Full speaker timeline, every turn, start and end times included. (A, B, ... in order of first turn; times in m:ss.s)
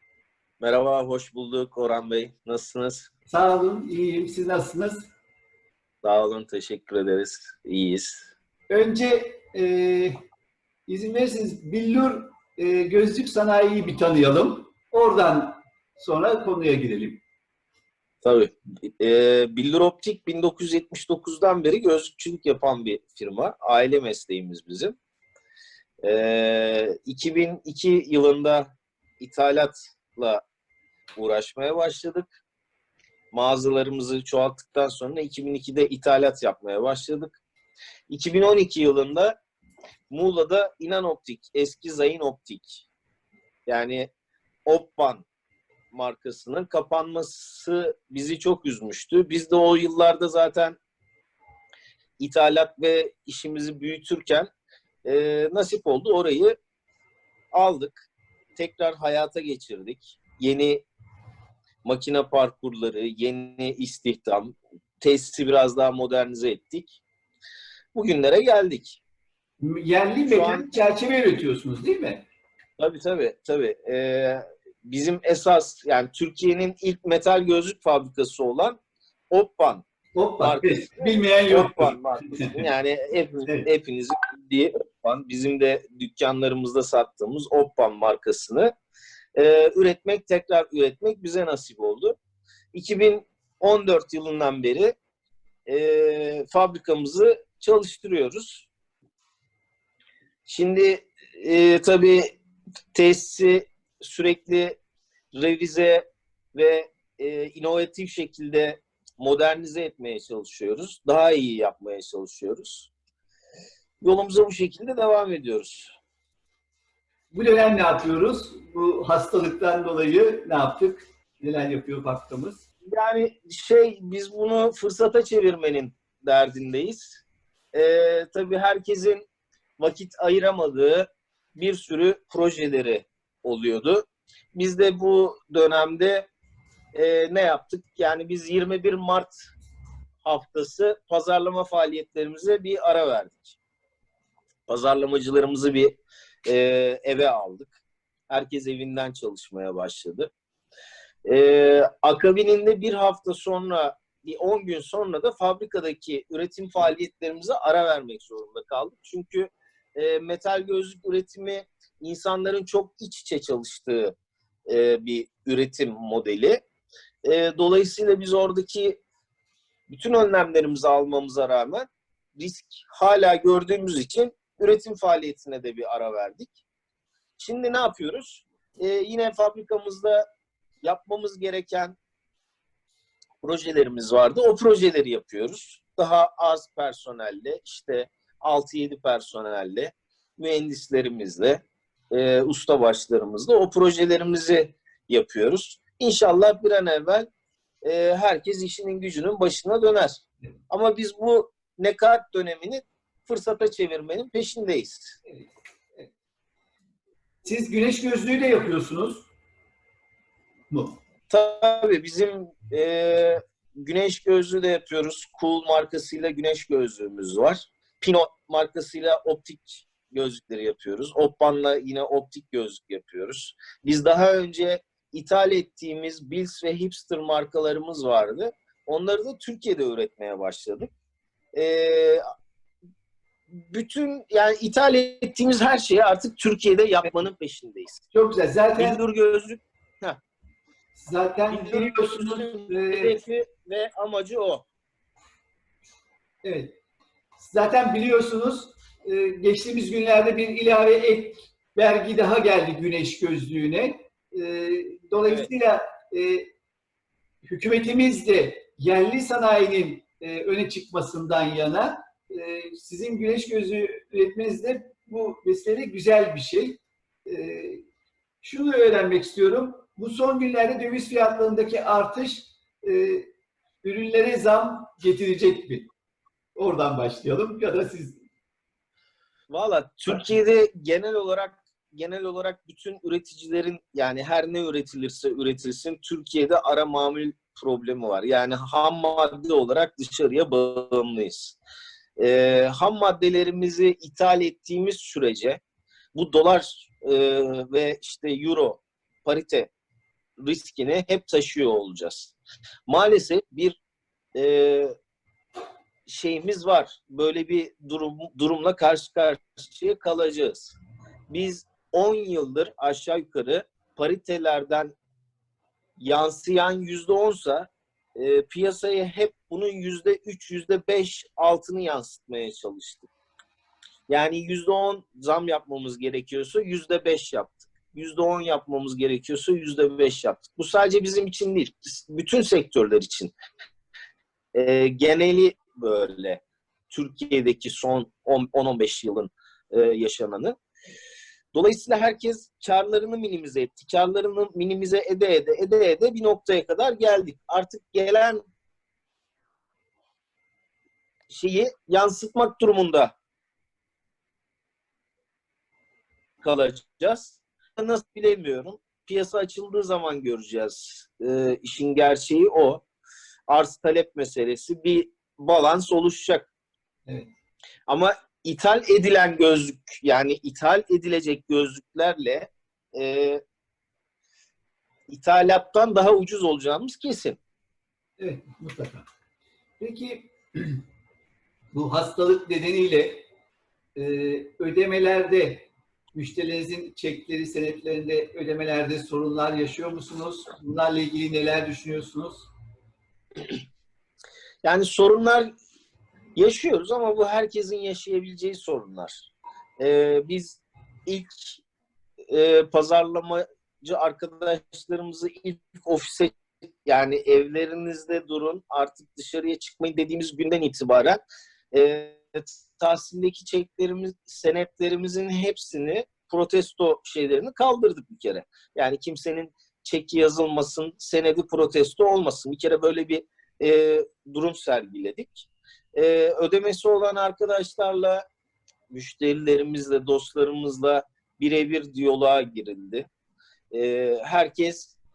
0:00.6-0:03.1 A
0:03.3-0:05.1 B
0:06.0-0:08.2 A
0:08.7-0:10.2 B
0:10.9-0:17.2 B
0:18.2-0:24.9 A
0:26.0-0:30.4 A
0:31.2-0:32.3 A
0:33.3-0:37.4 A
0:38.1-0:39.4 A
0:40.1-0:42.8 A
0:43.7-0:44.1 A
0:44.7-0:45.2 A
0:45.9-0:50.8 A
0:52.2-0:54.5 A
0:55.0-0:56.6 A
0:57.5-1:00.8 A
1:01.8-1:07.0 A
1:07.9-1:09.0 A
1:09.6-1:12.2 B
1:10.3-1:10.7 A
1:12.8-1:18.8 A
1:19.3-1:19.8 A
1:20.2-1:22.7 B
1:20.4-1:28.7 A
1:29.4-1:32.2 A
1:32.7-1:35.0 A
1:35.7-1:38.7 A
1:40.5-1:42.4 A
1:42.9-1:44.8 A
1:45.3-1:52.9 A
1:54.0-1:56.0 A
1:57.3-2:02.6 B
2:02.9-2:07.2 A
2:07.7-2:09.2 A
2:09.8-2:16.3 A
2:16.9-2:19.3 A
2:20.2-2:23.6 A
2:24.7-2:27.8 A
2:28.3-2:30.3 A
2:31.2-2:44.2 A
2:44.7-2:46.6 A
2:47.2-2:49.0 A
2:49.9-2:56.6 A
2:57.4-3:00.2 A
3:00.8-3:02.0 A
3:03.4-3:17.3 A
3:17.8-3:25.2 A
3:25.3-3:26.1 B
3:27.4-3:29.3 B
3:30.7-3:31.0 B
3:31.3-3:50.9 A
3:51.5-3:52.2 A
3:53.6-3:58.0 A
3:58.1-3:59.0 B
3:58.8-4:00.2 A
4:00.9-4:03.1 B
4:01.5-4:04.6 A
4:06.4-4:06.8 B
4:07.4-4:16.5 B
4:17.4-4:27.8 B
4:28.4-4:33.3 B
4:33.8-4:35.9 B
4:36.6-4:38.2 B
4:39.5-4:51.6 A
4:52.2-4:55.6 A
4:56.1-4:59.7 A
5:00.4-5:02.3 A
5:02.9-5:03.8 A
5:04.4-5:04.9 A
5:06.1-5:10.7 A
5:11.3-5:14.9 A
5:16.0-5:23.1 A
5:24.1-5:33.3 A
5:34.5-5:40.6 A
5:41.5-5:48.4 A
5:51.3-5:53.1 A
5:56.4-6:02.8 A
6:03.5-6:06.5 A
6:07.9-6:13.4 A
6:15.1-6:17.4 A
6:18.2-6:19.0 B
6:19.8-6:20.8 B
6:21.7-6:23.2 B
6:24.0-6:32.5 B
6:34.6-6:35.5 A
6:36.4-6:39.3 A
6:39.8-6:41.6 A
6:42.3-6:46.3 A
6:46.8-7:08.2 A
7:08.9-7:13.1 A
7:13.7-7:14.9 A